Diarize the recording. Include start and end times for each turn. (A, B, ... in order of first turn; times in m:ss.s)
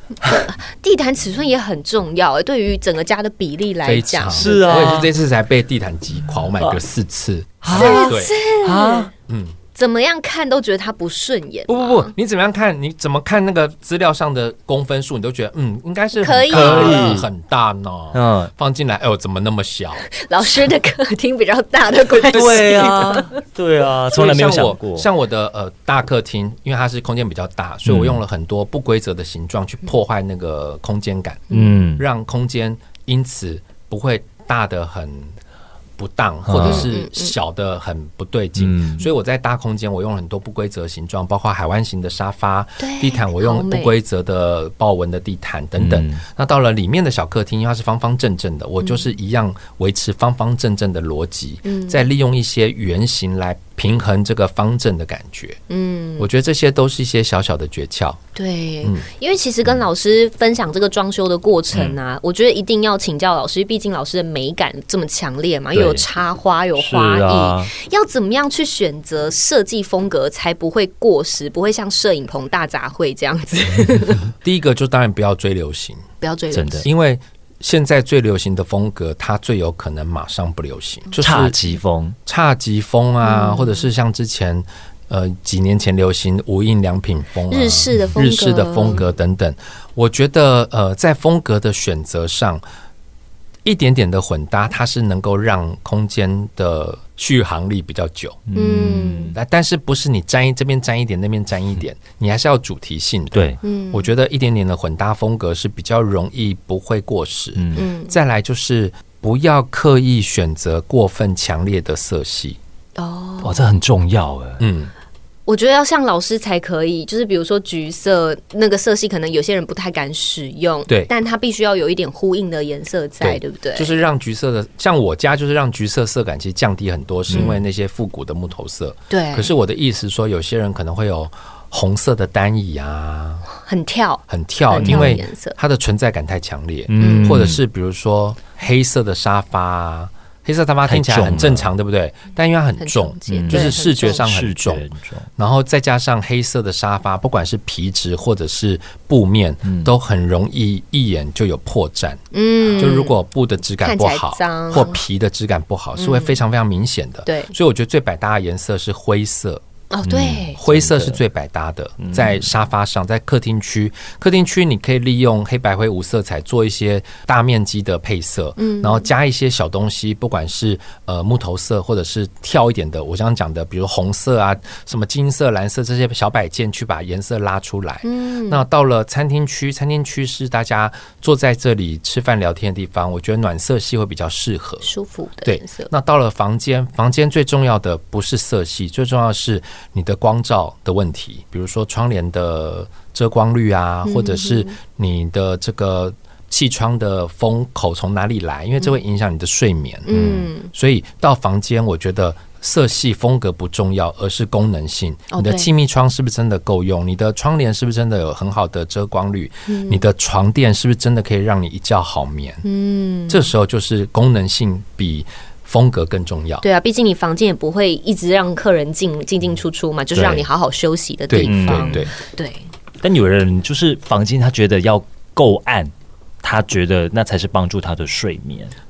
0:00.2-0:05.1 A
0:03.8-0:08.3 B
0:04.3-0:05.1 C
0:07.6-0:09.1 C
0:07.7-0:09.1 A
0:09.3-0:09.6 B
0:09.7-0:12.1 A
0:11.7-0:20.0 B
0:16.2-0:17.2 A
0:16.5-0:17.3 C
0:18.1-0:18.5 C
0:20.1-0:23.4 A
0:22.3-0:25.1 C
0:22.3-0:22.8 B
0:24.1-0:35.4 B
0:27.8-0:28.2 C
0:31.5-0:31.8 A
0:31.5-0:32.0 C
0:36.0-0:55.6 B
0:36.5-0:36.9 C
0:36.6-0:37.4 A
0:38.6-0:39.0 C
0:42.8-0:43.9 A
0:45.8-0:46.2 C
0:51.6-0:52.1 A
0:55.7-0:56.3 A
0:56.2-0:58.2 B
0:58.4-1:14.3 A
1:05.7-1:06.0 C
1:06.8-1:07.7 C
1:14.4-1:16.0 B
1:16.2-1:16.9 A
1:16.5-1:16.9 C
1:16.8-1:21.6 B
1:21.2-1:22.2 C
1:22.3-1:32.6 B
1:23.2-1:23.8 A
1:27.5-1:29.0 A
1:33.6-1:38.4 B
1:38.5-1:39.4 C
1:38.6-1:39.4 A
1:39.3-1:52.6 B
1:43.3-1:43.6 C
1:43.6-1:44.1 A
1:47.6-1:47.8 C
1:47.7-1:48.2 A
1:53.0-1:53.7 A
1:53.4-1:54.6 C
1:54.6-1:54.9 B
1:55.5-2:03.9 A
2:03.2-2:13.5 B
2:09.1-2:09.5 A
2:13.5-2:15.6 A
2:14.3-2:24.8 B
2:14.8-2:15.2 C
2:16.9-2:17.6 C
2:17.0-2:17.4 A
2:20.9-2:21.7 C
2:22.8-2:24.2 A
2:23.3-2:25.3 C
2:25.4-2:39.6 B
2:29.6-2:29.9 C
2:32.3-2:33.2 A
2:33.8-2:35.0 A
2:36.0-2:36.4 A
2:37.3-2:37.5 A
2:39.9-2:40.6 A
2:40.1-2:41.2 C
2:40.6-3:04.9 B
2:42.0-2:42.4 C
2:48.6-2:49.1 A
2:58.0-2:58.6 A
3:04.8-3:05.9 A
3:05.4-3:20.1 B
3:14.1-3:14.7 A
3:20.1-3:20.7 A
3:20.1-3:20.5 C
3:20.7-3:32.6 B
3:25.3-3:25.7 A
3:29.7-3:30.0 A
3:32.6-3:33.5 A
3:33.3-3:36.6 B
3:36.6-3:42.7 A
3:40.2-3:40.5 C
3:41.3-3:42.1 B
3:41.4-3:42.0 C
3:43.0-3:45.9 C
3:46.4-3:48.7 C